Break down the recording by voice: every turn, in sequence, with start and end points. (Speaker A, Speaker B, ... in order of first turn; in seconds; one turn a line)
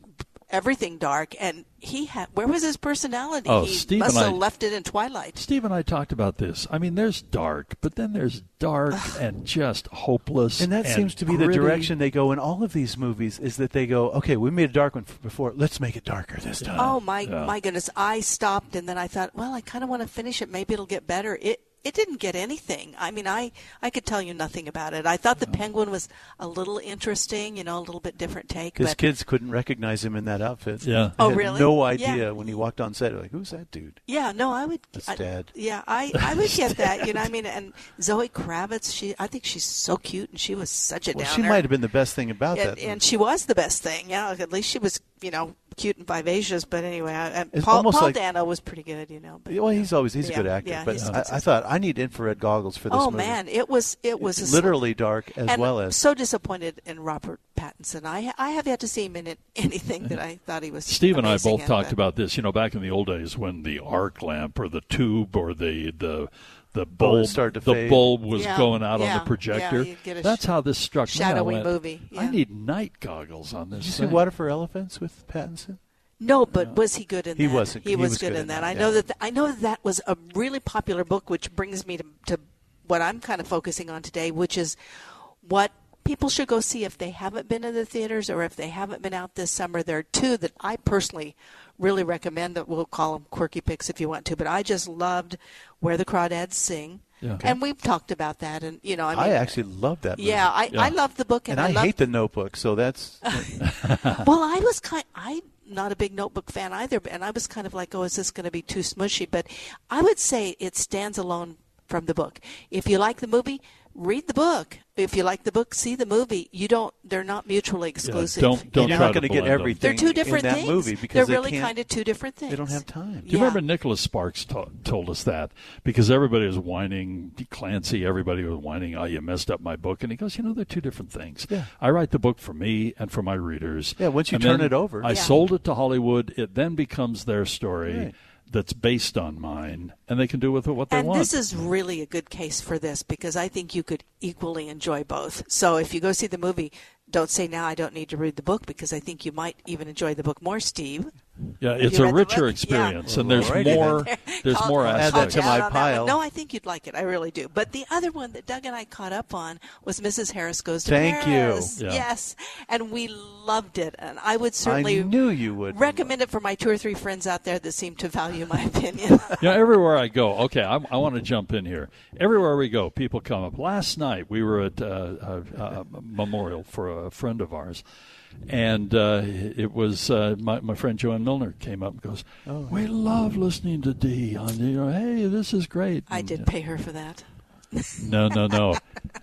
Speaker A: 0.5-5.4
Speaker B: 3.5-4.4
Speaker B: 5.3-11.9
Speaker C: 10.6-17.0
Speaker B: 16.6-17.5
Speaker A: 16.8-29.0
Speaker C: 28.8-34.0
Speaker B: 30.8-31.2
Speaker A: 31.2-32.4
Speaker A: 34.1-41.7
Speaker C: 34.9-35.5
Speaker B: 36.2-37.0
Speaker C: 41.1-43.0
Speaker A: 42.5-51.4
Speaker C: 47.5-48.2
Speaker C: 49.5-53.4
Speaker B: 50.9-51.2
Speaker A: 52.9-54.8
Speaker C: 54.2-56.0
Speaker A: 55.4-61.9
Speaker B: 60.8-74.2
Speaker C: 67.0-68.1
Speaker A: 68.3-70.4
Speaker A: 71.0-72.4
Speaker C: 73.8-75.8
Speaker A: 76.2-84.8
Speaker C: 77.3-79.0
Speaker A: 85.4-99.6
Speaker B: 97.2-97.5
Speaker C: 99.1-100.5
Speaker A: 100.2-101.9
Speaker C: 101.5-103.4
Speaker A: 103.3-103.6
Speaker B: 103.6-104.2
Speaker A: 104.2-119.2
Speaker B: 118.0-119.8
Speaker C: 118.7-121.8
Speaker A: 119.8-123.6
Speaker C: 122.5-123.3
Speaker B: 123.3-141.3
Speaker C: 134.0-135.2
Speaker A: 135.1-135.3
Speaker C: 137.9-138.1
Speaker A: 140.9-151.1
Speaker B: 151.6-155.6
Speaker A: 151.8-165.2
Speaker C: 153.0-154.1
Speaker C: 154.8-156.2
Speaker C: 160.8-161.7
Speaker B: 161.8-162.0
Speaker C: 164.6-166.1
Speaker A: 165.7-169.4
Speaker B: 169.4-177.8
Speaker B: 178.5-186.5
Speaker C: 182.5-182.8
Speaker A: 186.1-188.0
Speaker B: 188.0-188.8